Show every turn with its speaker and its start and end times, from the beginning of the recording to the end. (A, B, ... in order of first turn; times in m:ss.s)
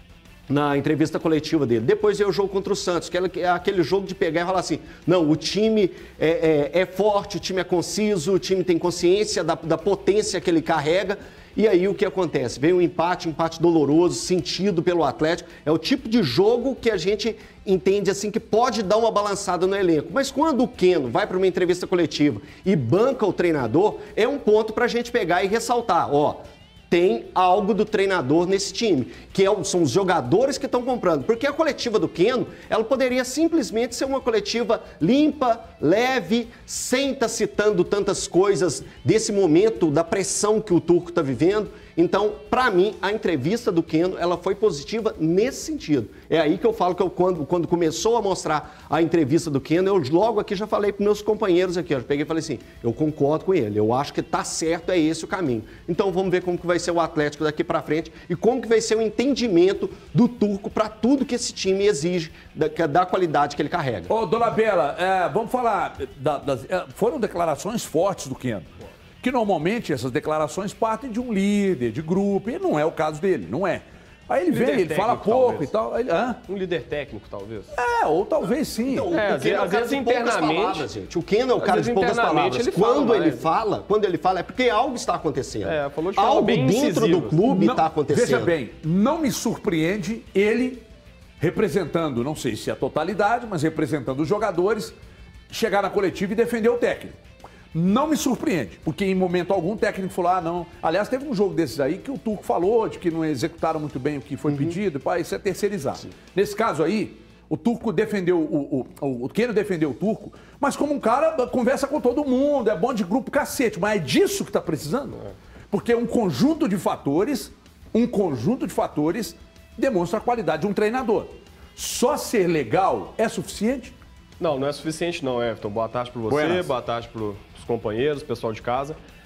0:00.5-1:04.1 A
1:04.1-1:08.7 B
1:09.2-1:16.4 B
1:14.5-1:15.7 C
1:16.5-1:17.7 C
1:17.7-1:19.1 B
1:18.9-1:28.5 A
1:19.1-1:20.9 C
1:21.6-1:23.4 C
1:25.6-1:27.4 C
1:26.2-1:30.8 B
1:31.4-1:34.9 B
1:35.5-1:37.2 B
1:37.7-2:03.9 B
1:44.5-1:44.8 A
2:04.4-2:09.0 C
2:06.3-2:06.7 B